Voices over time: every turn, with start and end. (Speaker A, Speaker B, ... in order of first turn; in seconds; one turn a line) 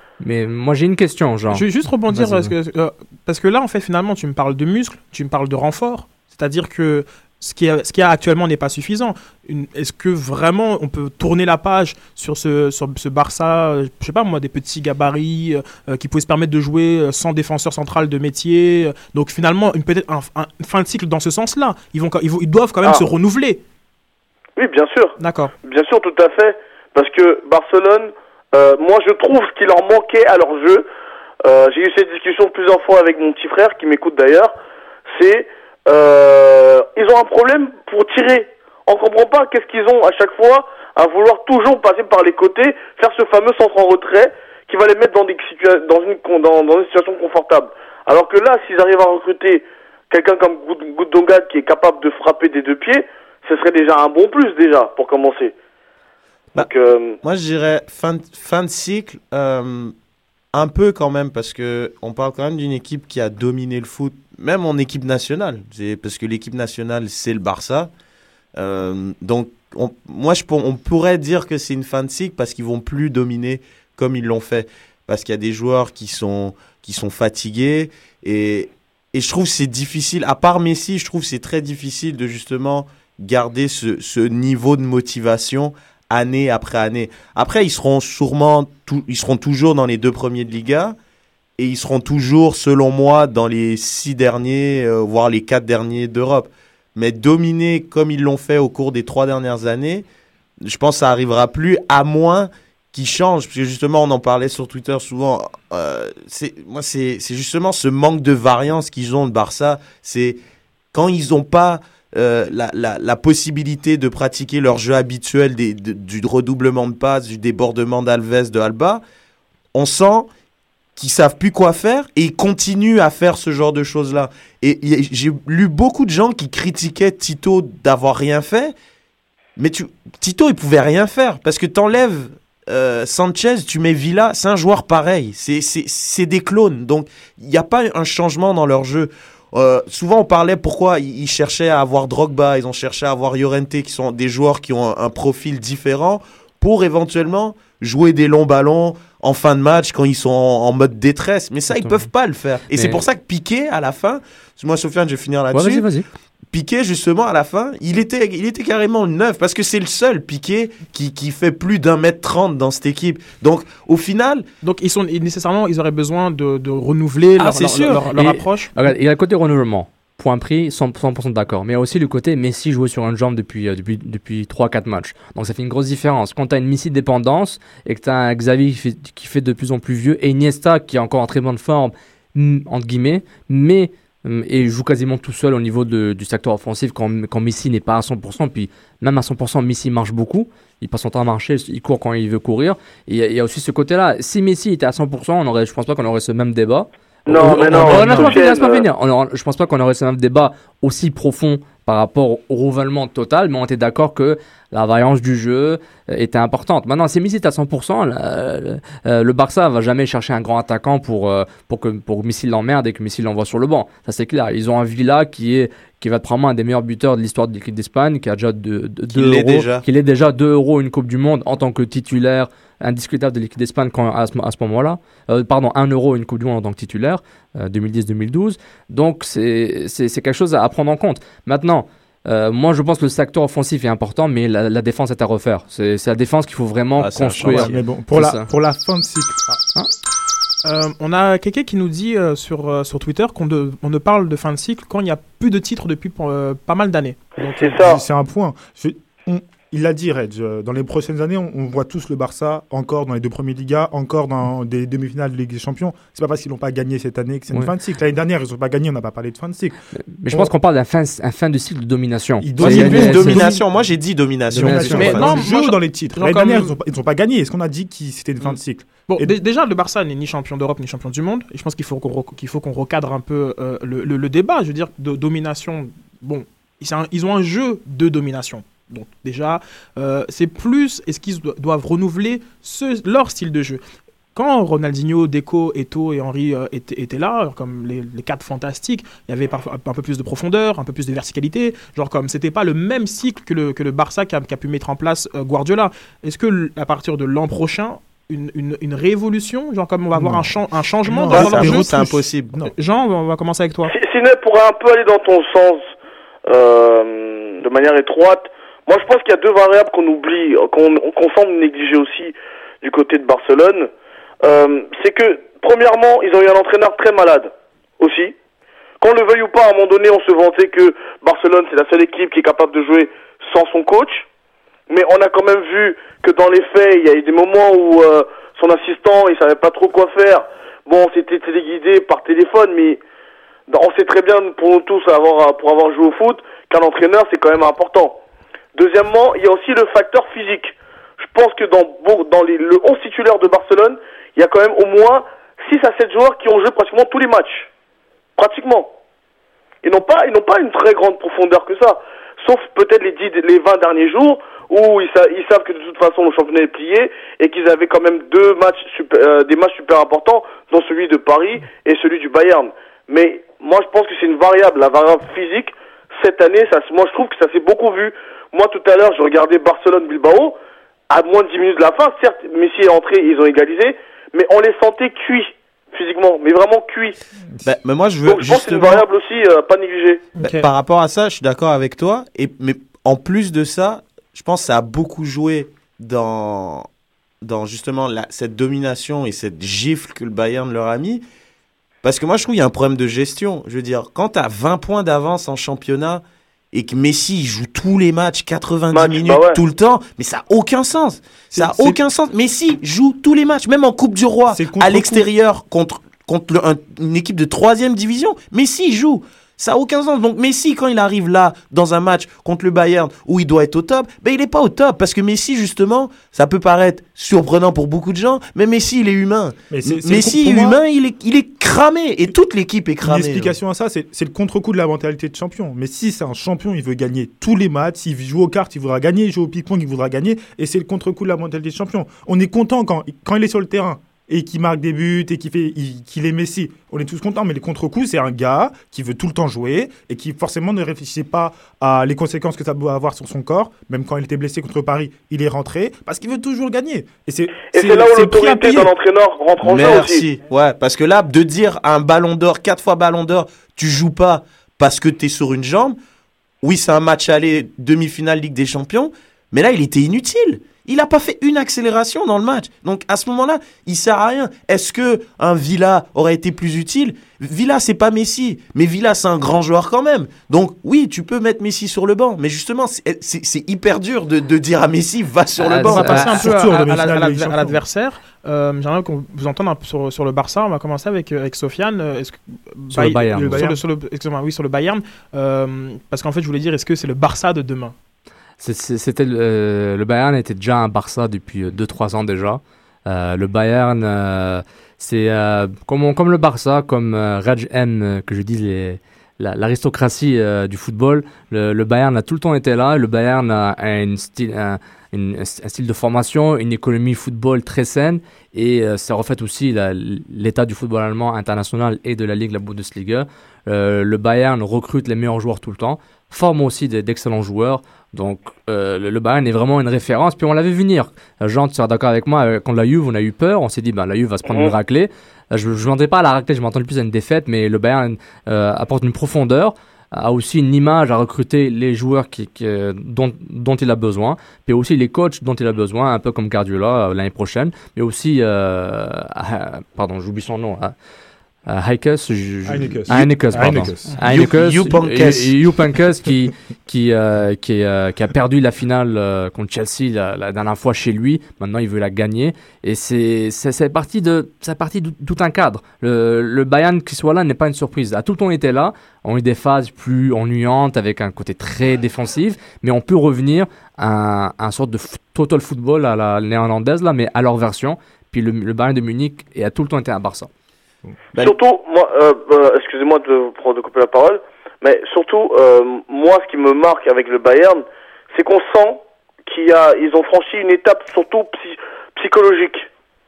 Speaker A: 0.2-2.5
Speaker B: 1.5-23.6
Speaker C: 24.6-30.9
Speaker B: 25.2-25.5
Speaker C: 31.4-34.5
Speaker C: 35.1-55.5
Speaker C: 56.5-57.2
Speaker D: 57.2-59.9
Speaker D: 60.5-67.9
Speaker D: 68.5-91.0
Speaker D: 91.6-100.0
Speaker D: 100.6-110.4
Speaker D: 110.9-119.0
Speaker D: 119.7-120.3
Speaker D: 121.0-128.7
Speaker D: 129.6-155.9
Speaker A: 151.7-152.1
Speaker A: 152.7-153.0
Speaker A: 155.5-156.1
Speaker D: 156.5-164.4
Speaker B: 164.6-168.7
Speaker A: 167.4-238.5
Speaker D: 167.6-167.9
Speaker C: 197.3-198.8
Speaker D: 219.1-219.8
Speaker D: 237.0-237.8
Speaker E: 237.4-239.6
Speaker B: 240.6-247.8
Speaker C: 247.5-248.0
Speaker E: 247.8-259.8
Speaker A: 259.9-263.5
Speaker E: 262.4-263.6
Speaker D: 262.6-265.4
Speaker A: 264.5-265.3
Speaker E: 264.5-269.3
Speaker B: 264.9-266.8
Speaker B: 269.1-283.8
Speaker B: 284.3-302.0
Speaker E: 300.1-302.3
Speaker D: 301.3-302.6
Speaker B: 302.5-303.9
Speaker C: 303.9-305.9
Speaker C: 306.5-313.9
Speaker C: 314.4-318.3
Speaker C: 319.0-324.2
Speaker C: 324.9-333.0
Speaker C: 333.7-338.2
Speaker C: 338.8-347.7
Speaker C: 348.4-348.9
Speaker C: 349.8-370.6
Speaker C: 371.1-377.1
Speaker D: 377.6-379.1
Speaker C: 378.2-380.2
Speaker B: 380.4-380.7
Speaker D: 380.4-386.9
Speaker D: 387.4-391.2
Speaker D: 392.0-423.5
Speaker C: 398.9-399.6
Speaker E: 401.5-402.0
Speaker E: 404.5-405.2
Speaker E: 419.7-420.8
Speaker E: 423.0-448.9
Speaker C: 447.7-450.2
Speaker D: 449.6-456.0
Speaker D: 456.6-476.1
Speaker A: 475.6-476.4
Speaker E: 475.9-477.8
Speaker B: 475.9-487.9
Speaker E: 482.9-483.8
Speaker A: 483.0-483.6
Speaker A: 488.6-540.9
Speaker C: 524.5-524.7
Speaker A: 541.7-570.5
Speaker E: 542.6-544.1
Speaker D: 544.2-545.5
Speaker C: 571.4-577.8
Speaker C: 578.3-582.9